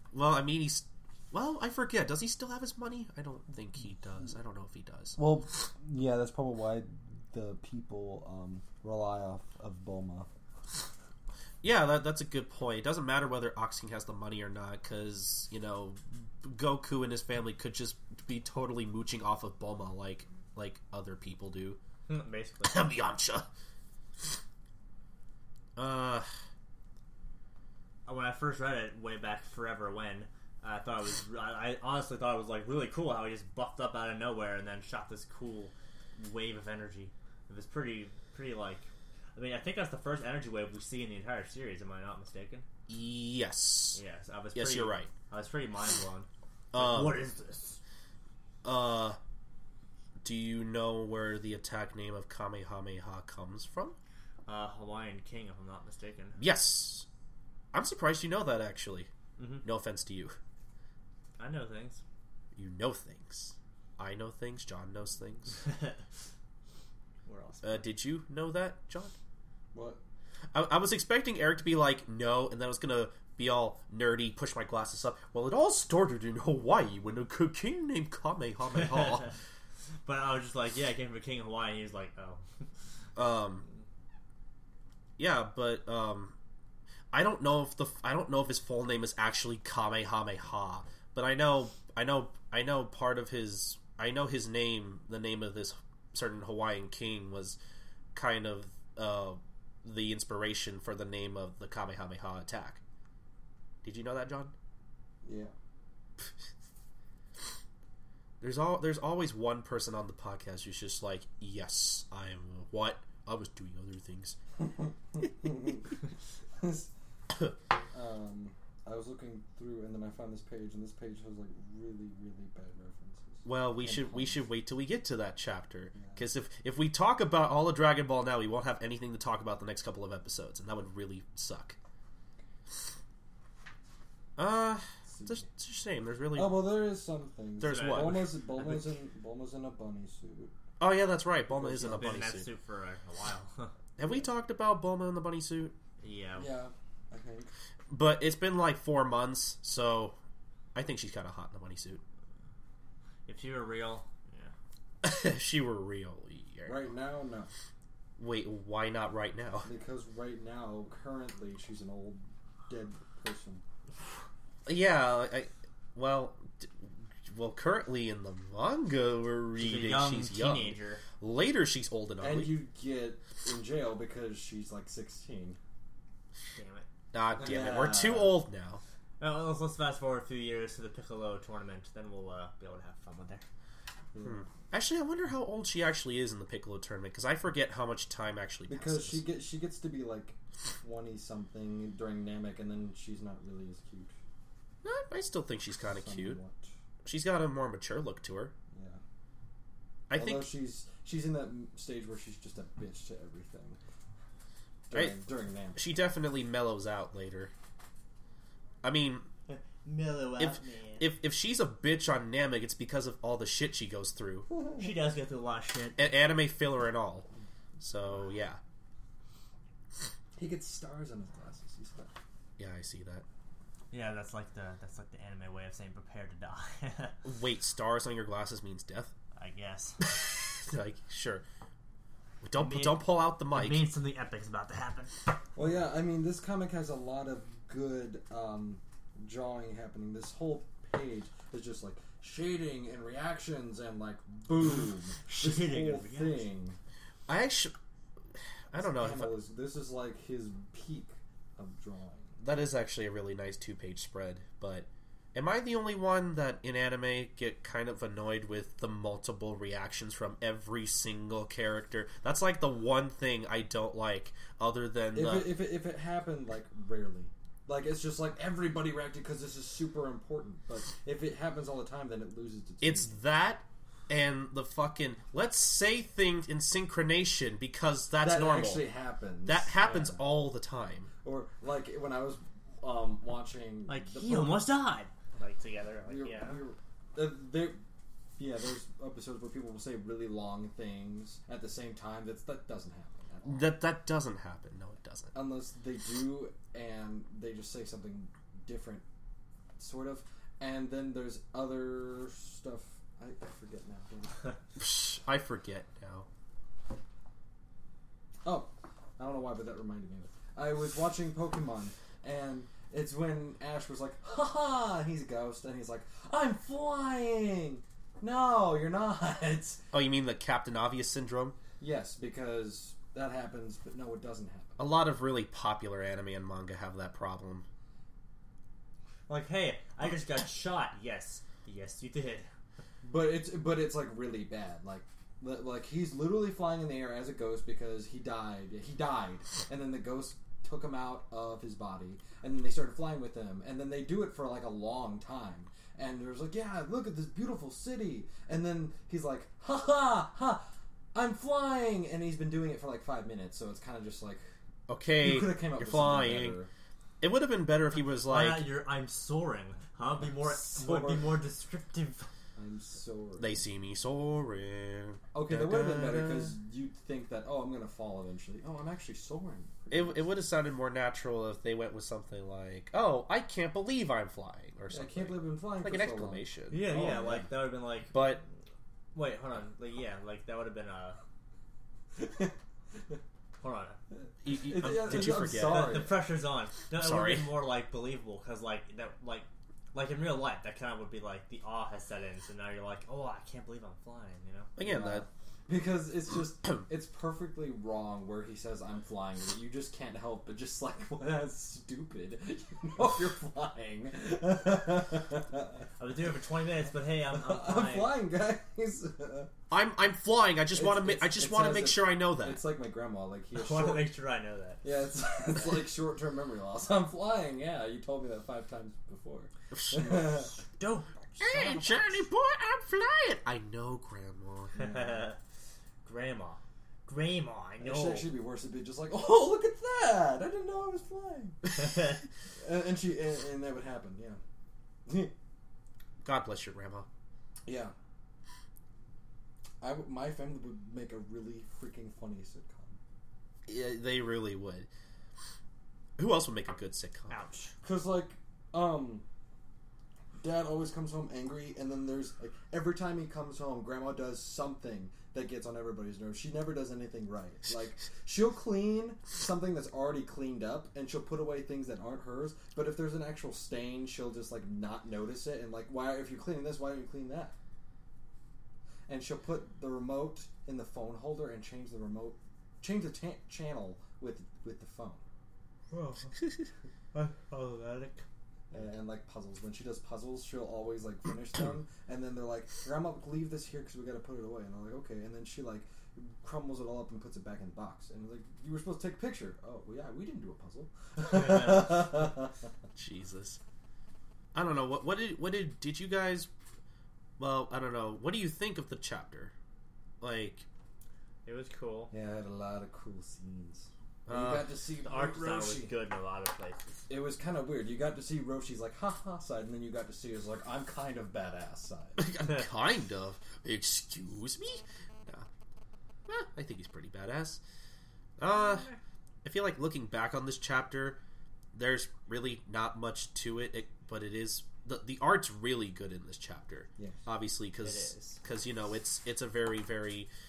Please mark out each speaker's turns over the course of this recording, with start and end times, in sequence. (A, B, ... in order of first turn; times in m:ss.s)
0:00.1-0:05.2 A
0:05.2-0:10.3 B
0:11.6-0:21.8 A
0:22.1-0:22.8 C
0:22.6-0:23.5 A
0:25.8-0:26.3 A
0:28.1-0:42.6 C
0:42.9-0:44.0 A
0:44.0-0:47.8 C
0:44.6-0:45.1 A
0:46.7-0:47.2 A
0:48.6-0:49.2 A
0:50.2-0:54.0 A
0:54.5-0:56.4 C
0:56.4-0:57.1 A
0:57.7-0:59.1 A
0:59.4-0:59.6 C
0:59.6-1:00.4 A
1:01.4-1:02.0 C
1:02.6-1:05.6 A
1:05.7-1:06.0 C
1:07.3-1:07.9 C
1:07.6-1:09.1 A
1:09.7-1:10.0 B
1:10.5-1:19.3 A
1:18.8-1:19.3 C
1:20.0-1:22.4 C
1:23.2-1:23.7 A
1:25.2-1:26.4 A
1:27.1-1:37.6 A
1:38.1-1:42.8 A
1:43.8-1:44.5 A
1:45.2-1:45.5 B
1:48.4-1:54.4 A
1:54.6-1:56.0 B
1:56.6-1:56.9 B
1:57.9-2:04.4 B
2:03.4-2:11.8 A
2:06.0-2:06.2 B
2:14.4-2:16.8 A
2:15.1-2:15.4 B
2:16.3-2:20.5 B
2:17.6-2:18.4 A
2:17.7-2:18.9 C
2:20.8-2:22.5 A
2:21.6-2:22.0 B
2:21.8-2:23.7 C
2:24.0-2:25.8 A
2:26.0-2:26.5 C
2:26.4-2:27.5 B
2:27.9-2:30.2 A
2:30.7-2:32.0 A
2:33.3-2:34.5 C
2:35.0-2:36.9 A
2:36.7-2:37.5 B
2:38.2-2:39.7 A
2:39.6-2:43.6 B
2:44.7-2:52.6 A
2:49.6-2:51.0 C
2:52.2-2:55.6 B
2:56.6-2:56.9 C
2:57.1-2:58.8 A
2:57.4-2:58.4 B
2:59.2-3:03.4 C
3:04.1-3:04.5 B
3:04.2-3:09.2 A
3:08.7-3:14.1 B
3:14.8-3:16.4 A
3:15.9-3:16.7 B
3:17.0-3:18.5 A
3:18.7-3:19.0 B
3:20.1-3:20.5 A
3:20.1-3:23.8 B
3:24.9-3:25.9 B
3:24.9-3:25.2 A
3:25.8-3:27.5 A
3:28.8-3:29.3 A
3:29.5-3:31.1 C
3:30.4-3:34.5 A
3:34.8-3:36.0 C
3:36.0-3:37.3 A
3:37.8-3:38.6 A
3:40.4-3:42.1 B
3:42.6-3:43.2 A
3:43.9-3:47.2 C
3:47.2-3:49.1 A
3:49.4-3:50.0 C
3:50.0-3:51.4 A
3:52.4-3:53.9 A
3:52.6-3:55.1 C
3:55.6-4:06.8 B
4:05.2-4:06.5 C
4:07.3-4:07.8 A
4:08.4-4:09.4 A
4:08.8-4:12.4 B
4:12.4-4:25.6 A
4:25.1-4:33.2 B
4:32.8-4:38.9 A
4:38.2-4:40.3 B
4:39.4-4:41.1 A
4:41.2-4:44.7 B
4:43.9-4:46.6 C
4:46.0-4:47.8 B
4:48.4-4:53.8 B
4:53.4-4:55.3 A
4:55.3-4:59.0 B
4:59.8-5:04.6 B
5:04.8-5:06.3 A
5:08.4-5:19.8 B
5:19.9-5:21.6 A
5:21.8-5:24.8 B
5:24.8-5:27.6 A
5:29.3-5:32.5 C
5:33.0-5:54.4 B
5:54.9-5:56.6 A
5:55.2-5:56.7 B
5:57.2-5:58.7 A
5:58.0-6:02.3 C
6:00.2-6:01.4 B
6:02.6-6:03.6 B
6:03.4-6:06.6 A
6:05.3-6:10.5 B
6:09.9-6:17.5 A
6:14.9-6:17.1 B
6:16.7-6:18.3 C
6:18.1-6:18.4 A
6:19.1-6:21.2 C
6:22.2-6:22.5 B
6:23.6-6:24.0 C
6:24.4-6:26.0 A
6:24.5-6:26.2 B
6:25.2-6:34.7 C
6:27.0-6:27.6 A
6:34.8-6:35.3 A
6:34.8-6:45.8 B
6:46.0-6:48.2 C
6:47.3-6:49.5 B
6:49.7-6:52.6 A
6:50.7-6:54.1 B
6:53.5-6:54.8 C
6:54.8-7:00.6 B
6:59.7-7:00.2 A
7:00.5-7:02.2 C
7:01.4-7:04.8 A
7:04.7-7:05.2 B
7:04.7-7:05.4 C
7:06.0-7:08.3 C
7:07.8-7:11.6 B
7:11.8-7:12.2 C
7:12.6-7:14.4 B
7:15.1-7:15.3 B
7:16.2-7:17.1 A
7:17.7-7:17.9 B
7:19.8-7:23.0 B
7:23.7-7:24.9 A
7:26.2-7:27.4 A
7:27.3-7:27.7 C
7:27.8-7:29.2 B
7:30.4-7:47.6 B
7:49.1-7:55.2 B
7:55.9-7:56.4 C
7:57.1-7:58.2 C
7:58.7-8:12.5 B
8:11.3-8:12.1 C
8:13.0-8:13.6 A
8:14.5-8:16.5 A
8:17.4-8:19.5 A
8:20.2-8:20.7 A
8:21.5-8:22.1 C
8:22.1-8:25.9 B
8:24.3-8:24.7 A
8:25.0-8:26.9 C
8:27.1-8:32.3 B
8:32.2-8:35.5 A
8:36.3-8:37.6 A
8:38.4-8:38.9 A
8:38.5-8:39.0 C
8:39.4-8:41.2 A
8:41.7-8:50.3 A
8:47.8-8:48.4 C